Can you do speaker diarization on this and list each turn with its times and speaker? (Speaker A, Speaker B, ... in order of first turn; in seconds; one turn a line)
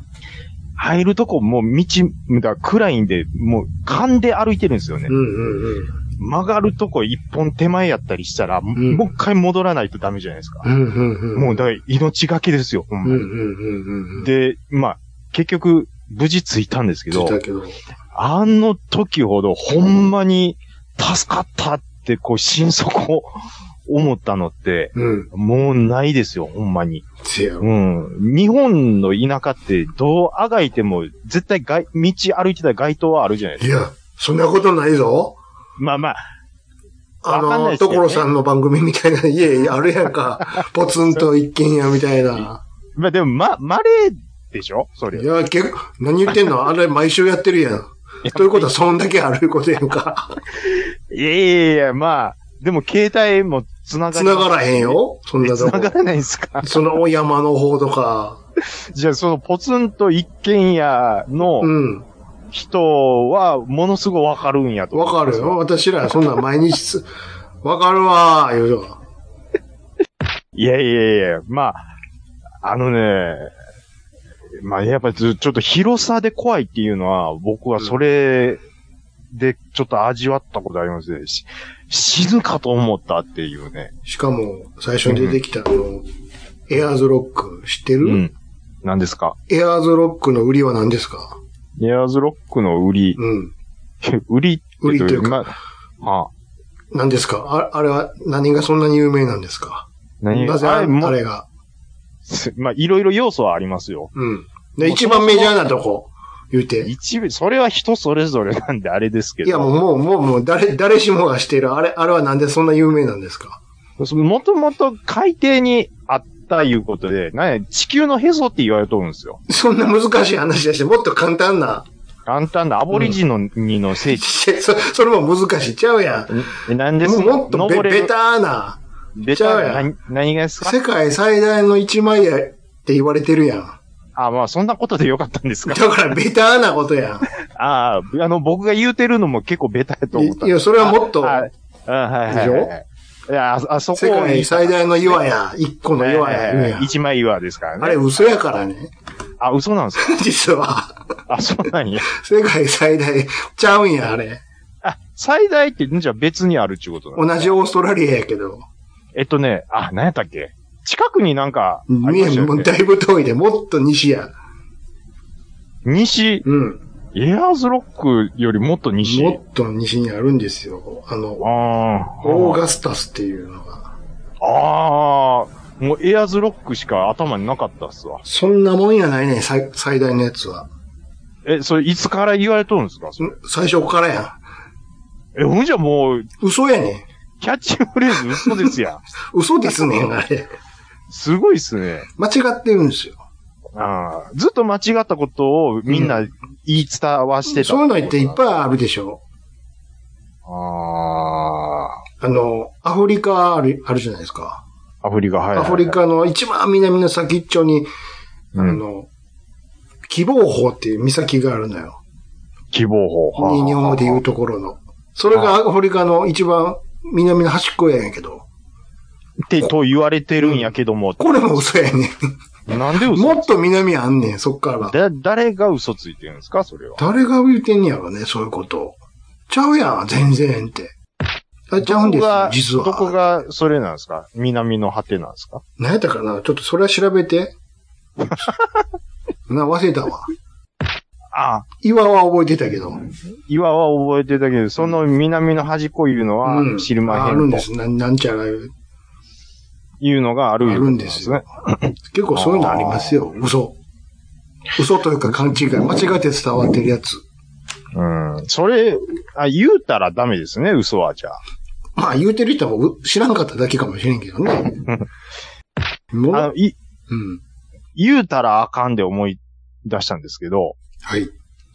Speaker A: 0.8-5.1
Speaker B: 5.1-5.9
Speaker A: 6.2-10.7
Speaker B: 8.8-9.0
Speaker B: 10.6-11.6
Speaker A: 11.3-13.3
Speaker B: 13.0-14.3
Speaker A: 14.1-17.4
Speaker B: 17.1-17.8
Speaker A: 18.1-23.3
Speaker A: 23.9-27.1
Speaker B: 24.9-25.3
Speaker B: 27.2-27.7
Speaker A: 27.6-33.7
Speaker B: 33.6-35.4
Speaker A: 35.8-36.2
Speaker B: 37.2-42.6
Speaker A: 37.2-38.2
Speaker A: 43.0-45.3
Speaker B: 45.1-50.4
Speaker A: 48.2-48.7
Speaker A: 50.7-56.8
Speaker B: 54.1-55.9
Speaker B: 56.6-58.4
Speaker A: 58.9-61.7
Speaker B: 61.6-62.0
Speaker A: 62.5-65.6
Speaker B: 64.9-67.1
Speaker B: 67.6-69.0
Speaker A: 70.5-71.8
Speaker A: 72.6-73.5
Speaker A: 74.6-78.6
Speaker A: 79.3-83.9
Speaker B: 84.0-86.0
Speaker A: 85.1-85.4
Speaker B: 86.7-88.2
Speaker A: 88.0-88.3
Speaker A: 88.8-89.4
Speaker B: 89.5-91.4
Speaker A: 91.8-93.2
Speaker B: 93.2-93.5
Speaker A: 94.0-96.3
Speaker B: 94.8-95.5
Speaker B: 96.9-101.5
Speaker A: 100.2-101.2
Speaker A: 102.2-104.1
Speaker B: 104.1-106.9
Speaker A: 104.8-105.6
Speaker A: 106.8-109.7
Speaker B: 109.4-113.6
Speaker A: 114.0-119.4
Speaker B: 119.5-121.9
Speaker A: 122.3-124.3
Speaker B: 124.0-126.3
Speaker A: 126.3-128.1
Speaker B: 127.0-128.8
Speaker A: 129.2-130.8
Speaker B: 129.3-129.9
Speaker B: 130.6-133.8
Speaker A: 134.2-135.9
Speaker B: 135.7-137.2
Speaker A: 137.4-145.2
Speaker B: 140.1-141.5
Speaker B: 142.3-142.7
Speaker B: 143.9-146.9
Speaker A: 146.0-148.1
Speaker B: 147.8-148.9
Speaker A: 149.4-150.2
Speaker B: 150.0-151.0
Speaker A: 151.3-152.1
Speaker B: 152.1-154.4
Speaker A: 154.8-157.5
Speaker B: 157.1-158.7
Speaker A: 159.1-162.7
Speaker B: 161.9-164.3
Speaker A: 165.8-166.4
Speaker B: 166.4-166.8
Speaker A: 167.1-169.4
Speaker B: 169.0-171.5
Speaker A: 171.4-172.6
Speaker B: 172.2-173.9
Speaker A: 174.4-178.2
Speaker B: 178.2-180.7
Speaker A: 181.4-183.3
Speaker B: 183.2-184.4
Speaker A: 185.3-186.3
Speaker B: 186.4-187.1
Speaker A: 187.4-189.0
Speaker B: 189.3-190.5
Speaker A: 191.1-192.1
Speaker B: 192.2-193.2
Speaker A: 193.7-198.4
Speaker B: 195.9-196.2
Speaker B: 197.4-199.2
Speaker A: 200.4-202.0
Speaker B: 202.2-204.6
Speaker A: 205.0-206.0
Speaker B: 205.5-207.9
Speaker B: 208.5-209.1
Speaker A: 208.6-208.8
Speaker B: 210.1-212.0
Speaker A: 212.7-214.2
Speaker B: 213.3-218.4
Speaker A: 219.5-221.4
Speaker B: 220.4-222.1
Speaker A: 222.7-223.5
Speaker B: 222.9-224.9
Speaker A: 224.8-227.0
Speaker B: 227.0-229.0
Speaker B: 229.5-230.9
Speaker B: 231.7-233.1
Speaker A: 231.8-235.6
Speaker B: 235.8-237.5
Speaker A: 238.3-238.6
Speaker B: 239.5-240.3
Speaker A: 241.3-241.7
Speaker B: 241.8-243.0
Speaker A: 243.5-247.6
Speaker B: 246.4-248.7
Speaker A: 250.0-253.3
Speaker B: 250.6-251.5
Speaker B: 252.1-253.8
Speaker B: 254.7-257.2
Speaker A: 257.9-261.4
Speaker B: 261.9-264.8
Speaker B: 266.1-266.5
Speaker A: 266.3-266.8
Speaker B: 267.1-267.4
Speaker A: 267.9-270.8
Speaker B: 271.0-271.3